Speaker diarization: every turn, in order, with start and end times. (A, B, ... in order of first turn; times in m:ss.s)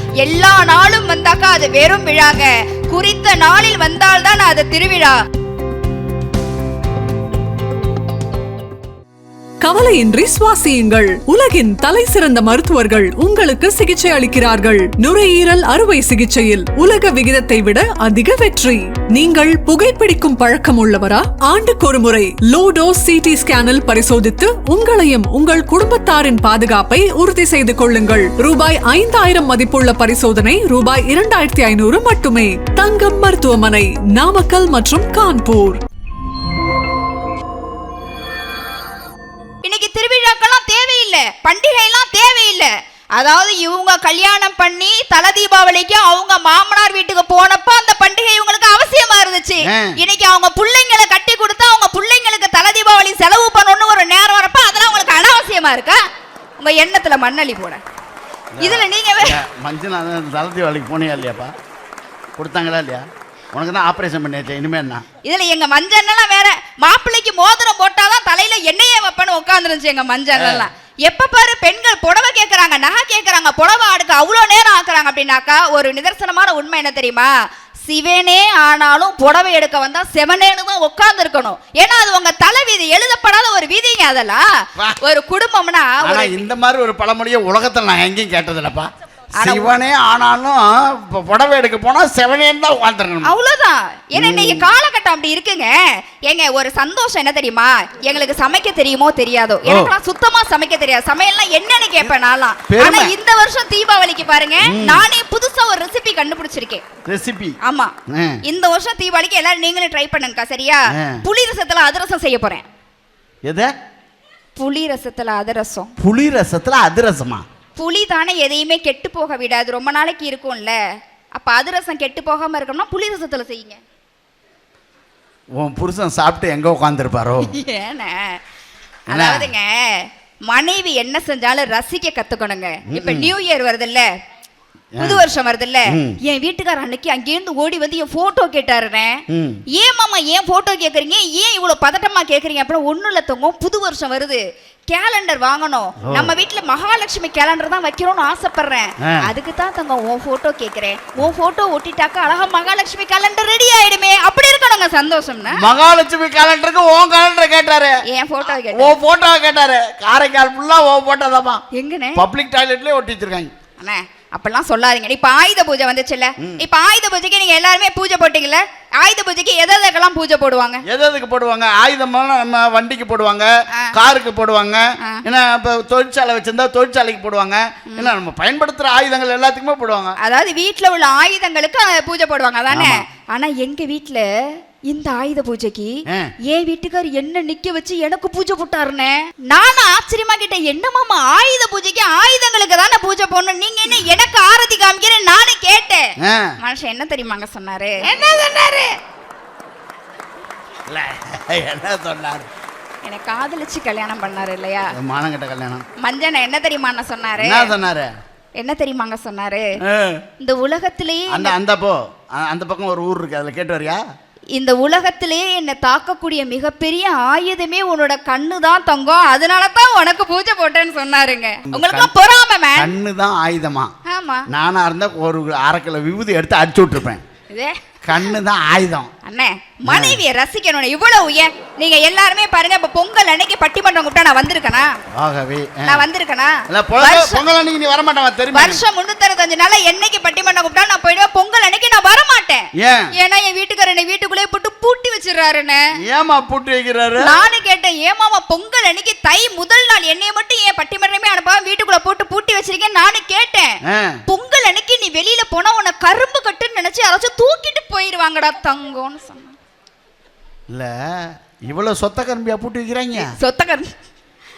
0:00.2-0:05.2 A
0:09.6-0:35.8 B
0:39.6-0:56.0 A
0:49.7-0:50.0 C
0:56.6-0:57.8 A
0:58.6-1:01.5 C
0:58.6-0:59.4 A
1:02.4-1:05.0 C
1:05.2-1:17.3 A
1:10.4-1:10.7 C
1:17.9-1:24.4 A
1:25.0-1:26.4 A
1:26.0-1:33.3 C
1:29.4-1:29.7 A
1:33.2-1:46.8 A
1:34.2-1:34.7 C
1:39.7-1:39.9 C
1:42.7-1:43.1 C
1:44.6-1:45.1 C
1:47.1-1:47.6 C
1:47.6-1:47.9 A
1:48.1-1:48.4 C
1:48.4-1:52.6 A
1:50.9-1:51.2 C
1:54.6-1:55.9 A
1:56.0-1:57.4 C
1:57.8-2:00.8 A
2:01.4-2:03.8 A
2:05.6-2:07.5 C
2:07.4-2:08.4 A
2:09.1-2:09.5 C
2:09.1-2:14.1 A
2:12.9-2:13.3 C
2:14.9-2:15.2 C
2:15.0-2:19.2 A
2:15.9-2:16.2 C
2:19.3-2:19.6 C
2:19.7-2:35.7 A
2:26.0-2:26.3 C
2:29.0-2:29.3 C
2:35.5-2:38.0 C
2:38.1-2:39.0 A
2:38.7-2:41.6 C
2:41.8-2:42.2 A
2:42.2-2:43.5 C
2:43.8-2:50.8 A
2:50.9-3:00.2 C
3:00.2-3:04.3 A
3:02.7-3:03.0 C
3:04.9-3:19.0 A
3:16.2-3:16.5 C
3:20.9-3:22.5 C
3:23.0-3:24.9 A
3:24.9-3:25.8 C
3:26.0-3:27.7 A
3:27.4-3:28.1 C
3:28.6-3:29.7 A
3:29.8-3:30.2 C
3:30.4-3:31.5 A
3:31.3-3:34.0 C
3:34.6-3:42.9 A
3:41.7-3:42.1 C
3:42.8-3:43.9 C
3:44.1-3:44.5 A
3:44.5-3:47.2 C
3:47.5-3:48.2 A
3:48.1-3:49.1 C
3:49.2-3:54.9 A
3:49.9-3:50.2 C
3:55.2-3:56.1 C
3:55.9-3:57.4 A
3:56.7-3:58.8 C
3:58.5-4:02.7 A
4:02.8-4:03.1 C
4:03.2-4:05.8 A
4:06.1-4:07.4 C
4:07.2-4:19.5 A
4:13.9-4:14.2 C
4:20.7-4:23.3 C
4:23.2-4:23.9 A